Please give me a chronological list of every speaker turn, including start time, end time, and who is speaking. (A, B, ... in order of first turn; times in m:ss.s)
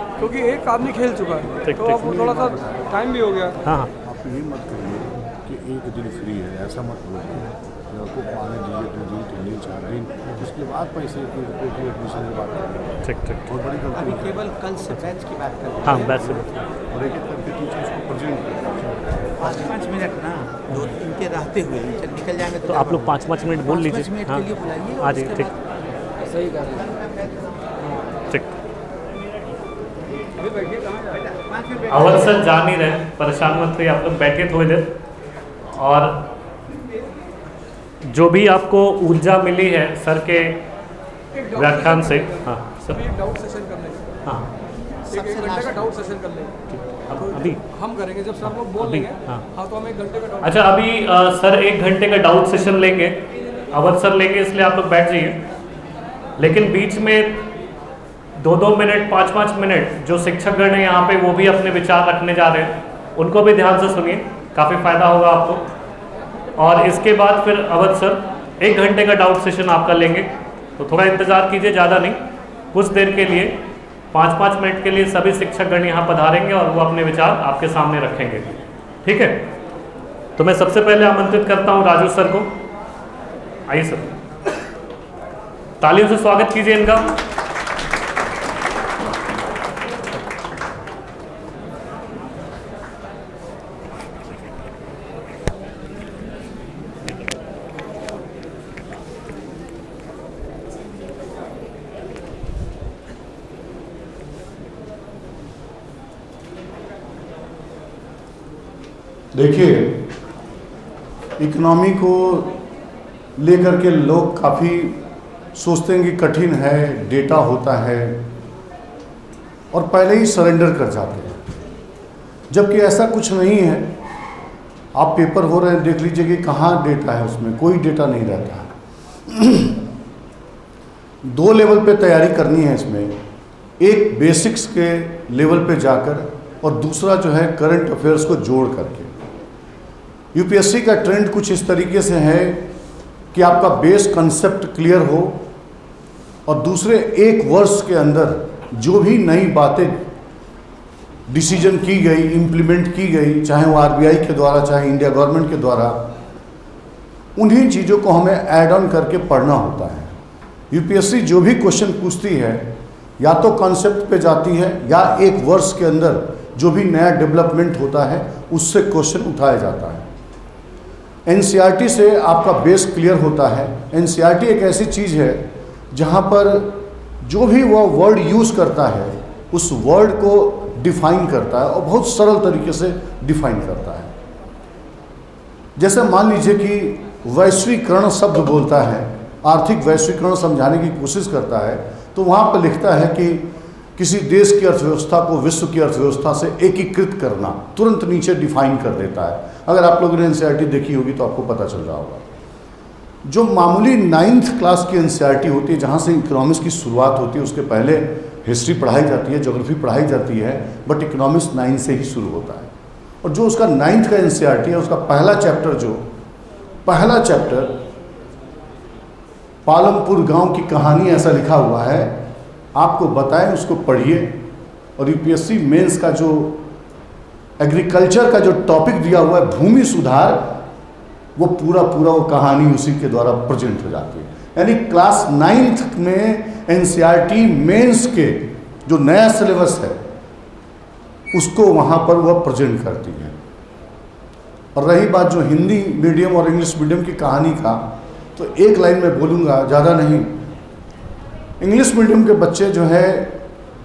0:00.2-0:03.6 A
0:01.7-0:02.2 B
0:02.0-0:02.8 C
0:03.6-0:03.9 B
0:04.0-0:14.3 C
0:13.0-0:13.5 B
0:14.0-0:16.0 D
0:15.8-0:16.6 B
0:16.9-0:19.5 C
0:19.4-0:23.1 D
0:22.6-0:24.4 B
0:23.8-0:25.6 D
0:25.0-0:25.5 B
0:26.3-0:27.4 D
0:28.3-0:28.6 B
0:31.9-0:34.9 B
0:35.7-0:36.2 B
0:38.1-0:40.6 B
0:41.3-0:44.2 A
0:41.5-0:43.0 B
0:45.1-0:46.5 A
0:46.7-0:47.6 B
0:47.7-0:50.5 A
0:48.8-0:49.4 B
0:50.4-0:55.4 B
0:56.4-0:57.4 B
0:58.4-1:05.7 B
1:06.6-1:12.2 B
1:12.7-1:13.5 B
1:14.1-1:18.5 B
1:19.0-1:19.5 B
1:20.4-1:22.5 B
1:23.7-1:24.1 B
1:25.8-1:27.2 B
1:49.3-1:50.1 C
1:51.4-1:52.5 C
1:53.4-1:55.0 C
1:55.5-1:58.2 C
1:59.7-2:01.5 C
2:02.5-2:04.0 C
2:04.9-2:08.7 C
2:09.3-2:09.8 C
2:11.2-2:13.2 C
2:13.8-2:19.1 C
2:20.3-2:22.7 C
2:23.3-2:25.4 C
2:26.4-2:30.1 C
2:31.3-2:36.1 C
2:37.3-2:40.2 C
2:40.7-2:50.1 C
2:51.2-3:04.1 C
3:05.8-3:22.2 C
3:23.2-3:32.7 C
3:33.2-3:36.0 C
3:36.8-3:37.8 C
3:39.6-3:42.2 C
3:42.7-3:44.4 C
3:45.0-3:46.6 C
3:47.6-3:50.6 C
3:51.4-4:00.0 C
4:01.3-4:03.4 C
4:04.7-4:10.4 C
4:11.6-4:13.4 C